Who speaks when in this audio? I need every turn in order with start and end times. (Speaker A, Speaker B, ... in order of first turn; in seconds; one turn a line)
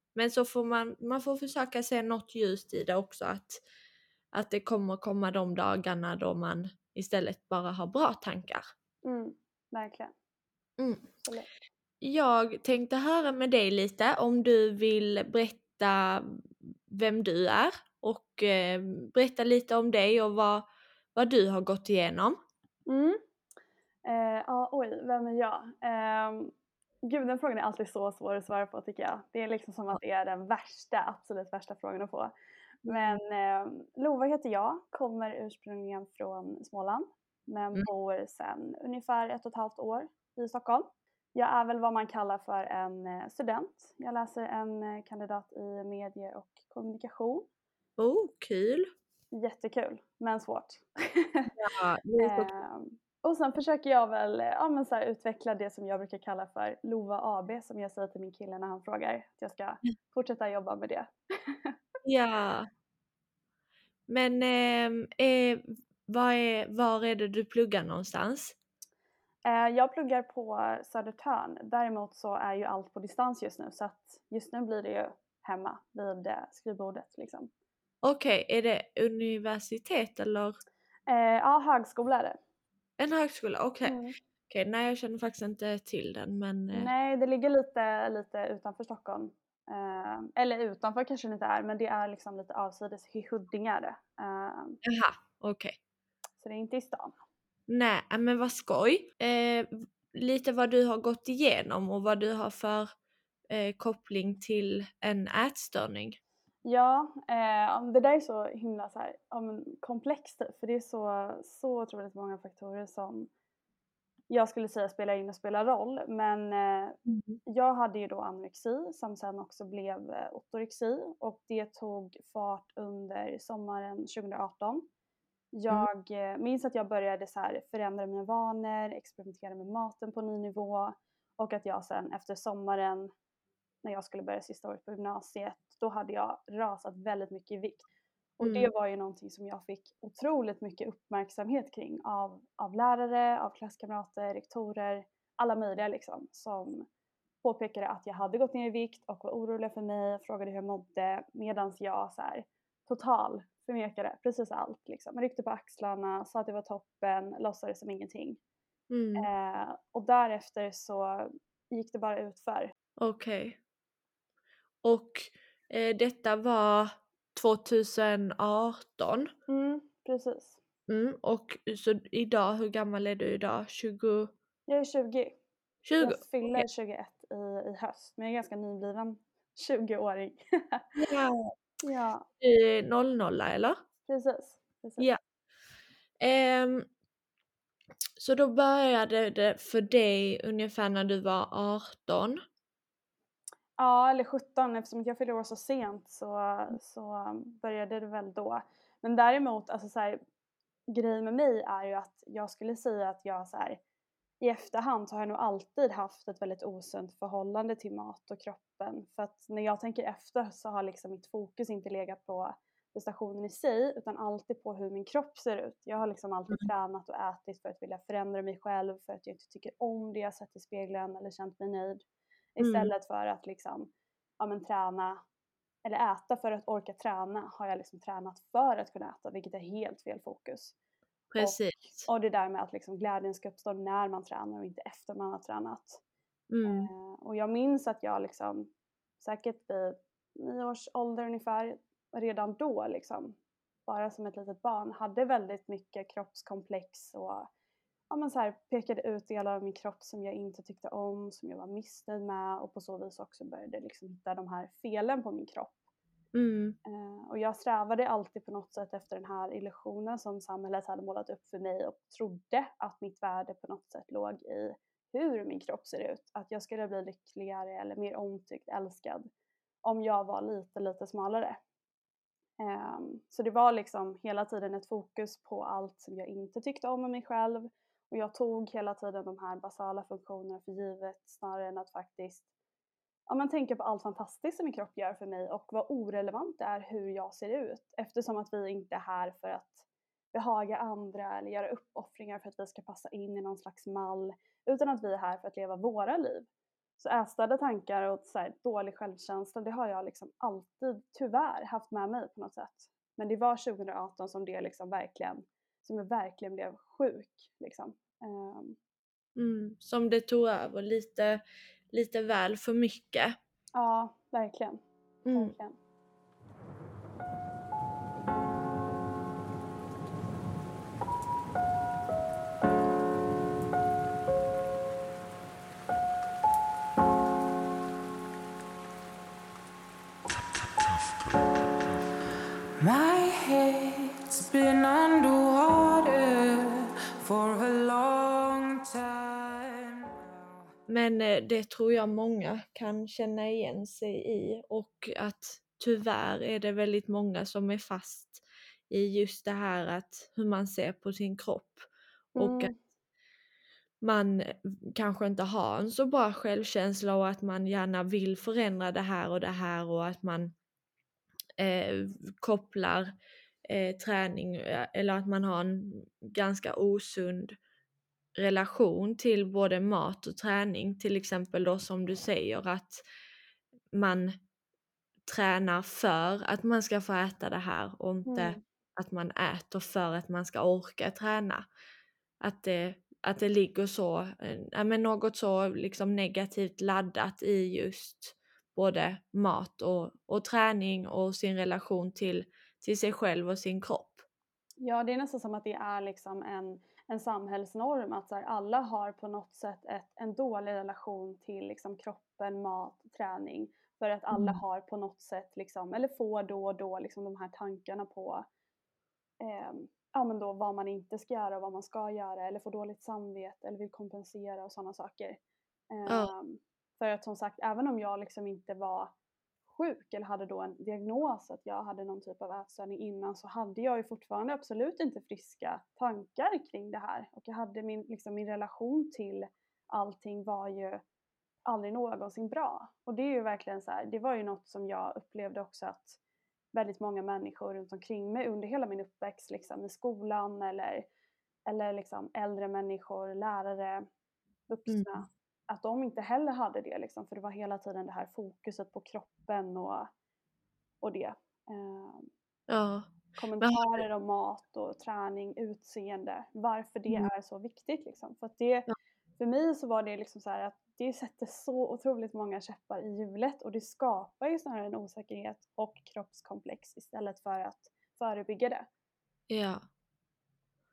Speaker A: 0.1-3.6
Speaker A: 4.3-8.7
Speaker B: 9.0-10.1
Speaker A: 10.8-11.1
Speaker A: 12.0-20.6
Speaker A: 21.1-22.4
Speaker B: 22.9-23.2
Speaker B: 24.1-26.5
Speaker B: 27.1-32.3
Speaker B: 32.9-47.5
Speaker A: 32.9-33.1
Speaker A: 48.0-48.9
Speaker B: 49.3-51.5
Speaker A: 51.6-52.5
Speaker B: 52.2-61.8
Speaker A: 62.0-62.7
Speaker A: 64.1-68.6
Speaker B: 69.5-77.5
Speaker A: 78.0-80.6
Speaker B: 81.1-82.4
Speaker A: 83.0-86.9
Speaker B: 83.8-84.2
Speaker B: 86.7-94.8
Speaker A: 94.8-95.8
Speaker B: 96.4-97.1
Speaker A: 97.7-102.9
Speaker A: 103.5-106.2
Speaker B: 106.7-113.3
Speaker B: 114.3-124.9
Speaker A: 117.1-117.4
Speaker B: 125.5-133.1
Speaker B: 133.8-137.9
Speaker B: 138.4-146.9
Speaker A: 138.4-138.7
Speaker B: 147.4-158.4
Speaker A: 158.9-159.3
Speaker B: 159.2-162.7
Speaker A: 163.0-163.6
Speaker A: 164.8-169.3
Speaker B: 169.5-170.6
Speaker A: 170.9-174.3
Speaker B: 174.7-175.4
Speaker A: 175.8-176.7
Speaker B: 176.0-181.0
Speaker A: 180.9-181.5
Speaker B: 181.8-182.3
Speaker A: 182.4-183.8
Speaker B: 184.1-185.1
Speaker A: 186.2-186.9
Speaker A: 188.2-192.4
Speaker B: 193.8-200.2
Speaker B: 200.9-203.8
Speaker B: 204.4-222.0
Speaker B: 222.6-225.2
Speaker A: 222.6-222.9
Speaker B: 225.8-230.8
Speaker A: 231.3-232.1
Speaker B: 231.4-236.0
Speaker A: 236.5-236.9
Speaker B: 236.7-247.5
Speaker B: 248.1-255.8
Speaker A: 256.3-256.8
Speaker B: 256.9-269.3
Speaker B: 269.8-271.6
Speaker B: 272.6-282.5
Speaker B: 283.3-308.8
Speaker A: 309.4-311.4
Speaker A: 311.9-313.4
Speaker B: 313.8-314.8
Speaker A: 315.2-315.6
Speaker B: 315.3-315.8
Speaker C: 332.8-340.2
Speaker A: 340.9-352.7
Speaker B: 352.4-352.8
Speaker A: 354.0-360.5
Speaker A: 361.6-363.1
Speaker A: 363.7-367.6
Speaker A: 368.4-373.0
Speaker A: 373.9-374.4
Speaker A: 375.3-381.7
Speaker B: 378.3-378.6
Speaker A: 382.4-394.2
Speaker B: 394.8-408.5
Speaker A: 404.3-404.6
Speaker B: 409.4-415.4
Speaker B: 415.9-419.1
Speaker A: 416.1-416.3
Speaker B: 419.7-431.0
Speaker B: 431.7-436.2
Speaker B: 436.7-441.1
Speaker B: 441.7-444.1
Speaker B: 444.7-450.1
Speaker A: 444.9-445.2
Speaker B: 451.0-452.3
Speaker A: 452.7-454.0
Speaker B: 453.4-468.9
Speaker A: 469.5-469.8